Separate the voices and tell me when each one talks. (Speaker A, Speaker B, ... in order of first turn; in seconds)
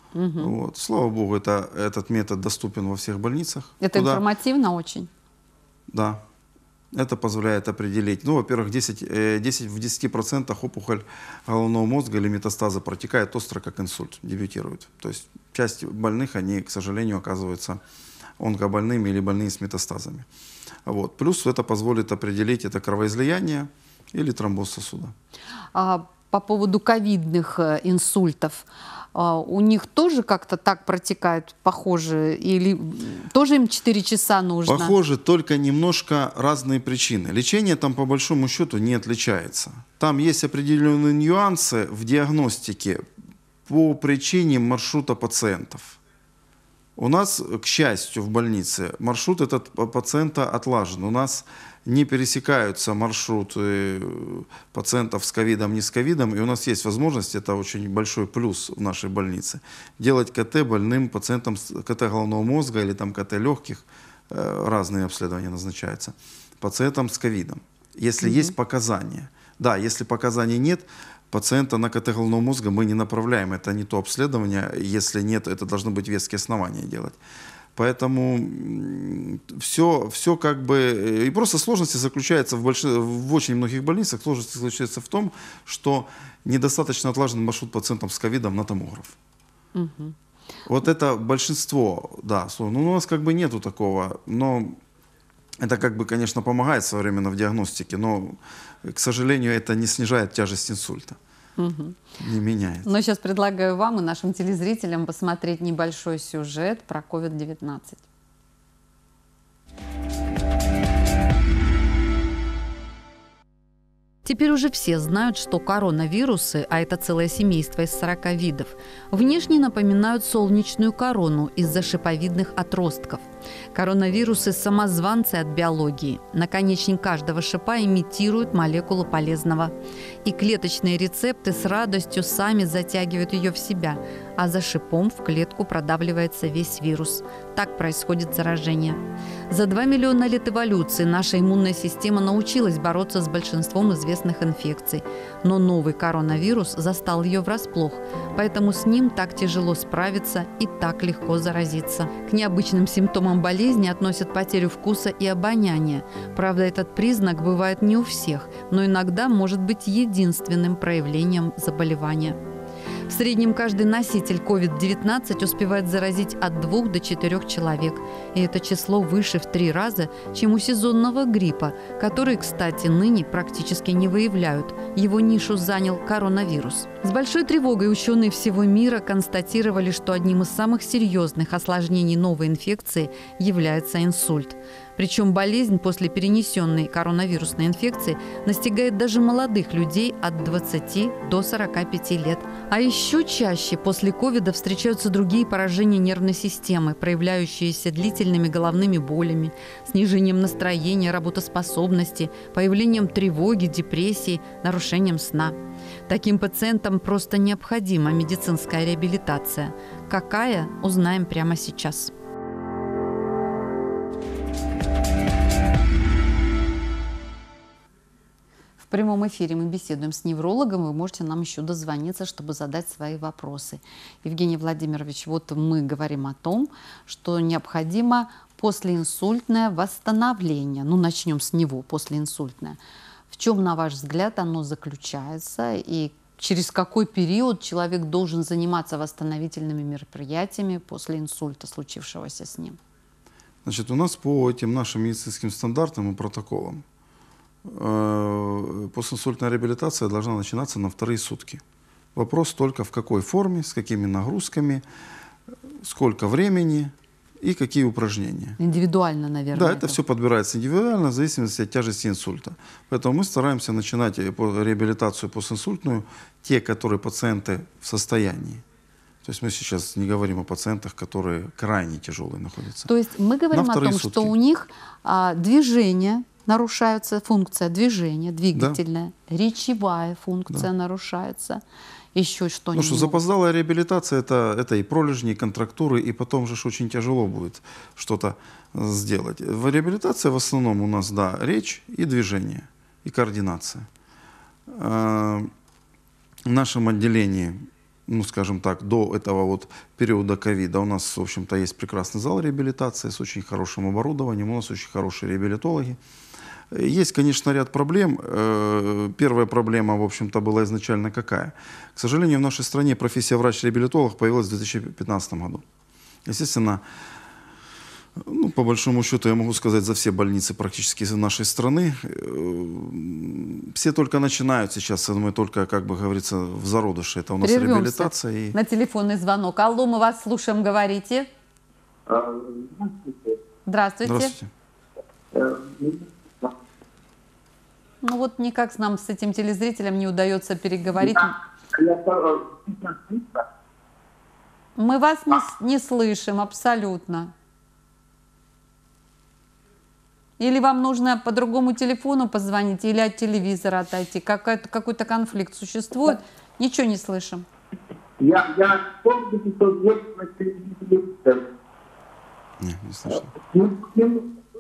Speaker A: 0.1-0.6, 3.8-5.1, 25.7-35.0, 68.2-68.5, 89.8-90.2, 101.6-102.0, 102.8-108.0, 114.2-162.4, 163.1-205.6, 206.1-212.1, 218.8-232.8, 233.3-242.8, 258.6-260.0, 272.9-281.6, 282.1-283.2, 327.4-331.3, 333.7-334.4, 338.0-341.3, 344.8-347.3, 350.4-357.5
Speaker B: 0.4-4.2, 5.9-6.2, 6.9-17.8, 18.4-20.3, 20.9-25.1, 34.7-43.0, 43.7-46.0, 47.0-77.2, 77.8-89.2, 90.7-94.8, 95.6-101.2, 102.2-102.9, 243.7-246.8, 247.6-251.6, 252.2-254.8, 255.8-258.6, 259.5-268.6, 269.2-272.9, 273.5-274.3, 282.7-293.9, 294.7-295.5, 296.5-306.0, 306.7-315.6, 316.3-316.8, 318.2-328.6, 334.0-334.5, 362.6-363.3
Speaker C: 332.1-333.1, 335.4-336.5, 341.7-343.3, 358.2-361.4, 363.5-364.2